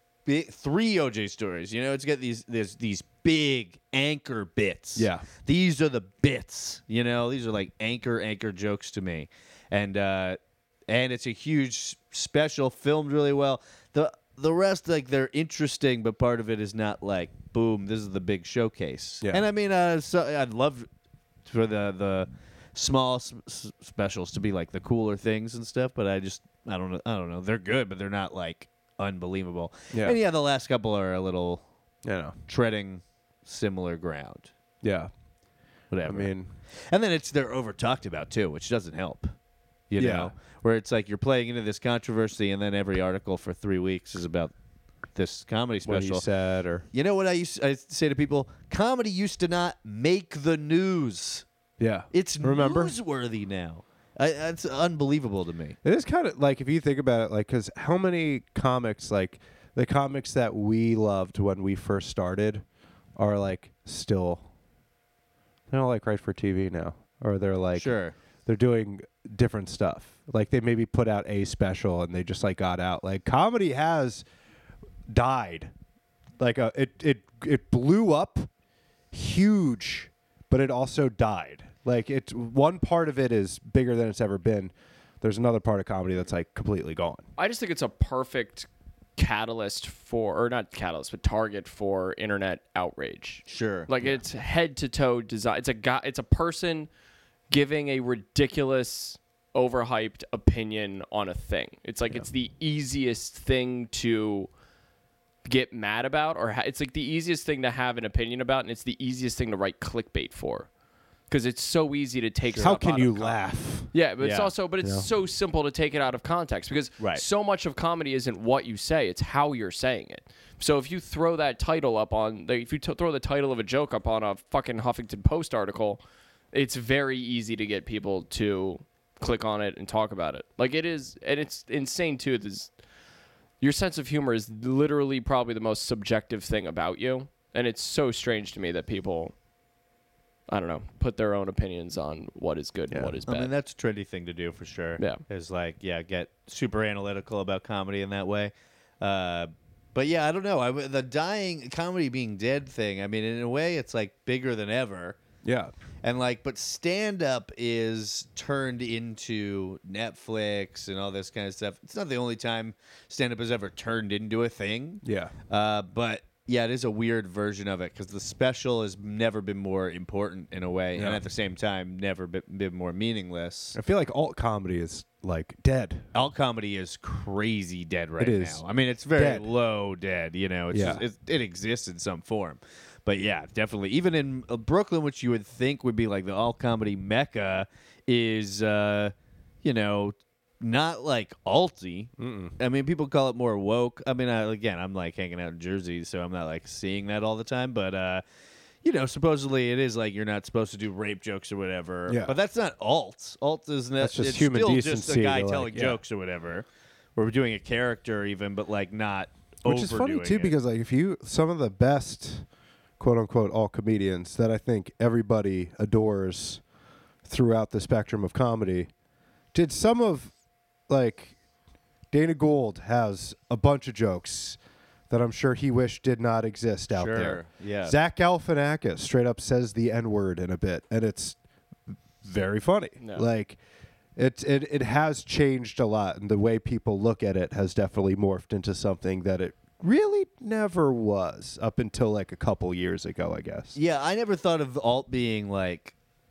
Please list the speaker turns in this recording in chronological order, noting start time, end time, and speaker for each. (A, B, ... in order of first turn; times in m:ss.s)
0:00.2-0:20.9 A
0:05.0-0:05.3 B
0:21.5-0:31.6 A
0:29.9-0:30.2 B
0:32.0-0:32.4 B
0:32.5-0:34.5 A
0:34.8-0:35.1 B
0:35.9-0:36.3 A
0:36.0-0:36.5 B
0:36.9-0:39.3 A
0:39.9-0:44.5 A
0:40.0-0:40.3 B
0:45.1-0:46.2 A
0:45.8-0:46.9 B
0:46.9-0:51.4 A
0:51.8-0:53.0 B
0:52.1-0:55.8 A
0:55.8-1:02.6 B
1:03.2-1:04.4 B
1:05.7-1:07.9 B
1:07.8-1:08.2 A
1:08.5-1:14.2 B
1:15.1-1:15.7 B
1:16.4-1:18.5 B
1:19.1-1:27.2 B
1:27.4-1:36.9 C
1:33.5-1:33.9 A
1:37.5-1:44.5 C
1:45.4-1:50.7 C
1:51.3-1:53.4 C
1:52.6-1:53.9 B
1:53.9-2:06.0 C
1:54.2-1:54.5 A
2:06.5-2:12.7 C
2:13.6-2:19.3 C
2:20.5-2:23.5 C
2:22.9-2:23.2 B
2:23.3-2:35.2 A
2:35.4-2:35.7 B
2:36.0-2:53.8 A
2:45.0-2:45.3 B
2:51.0-2:51.2 B
2:53.7-2:56.1 B
2:56.1-3:18.2 A
2:58.2-2:59.5 B
3:00.7-3:01.0 B
3:12.2-3:12.5 B
3:18.8-3:30.5 A
3:22.1-3:22.3 B
3:24.0-3:26.0 B
3:29.6-3:32.5 B
3:33.0-3:36.6 B
3:37.2-3:38.9 B
3:39.5-3:40.3 B
3:40.9-3:41.4 B
3:42.1-3:44.6 B
3:45.1-3:51.4 B
3:46.9-3:48.0 A
3:52.2-3:53.6 B
3:53.0-3:53.3 C
3:54.2-4:03.8 B
4:03.7-4:05.9 A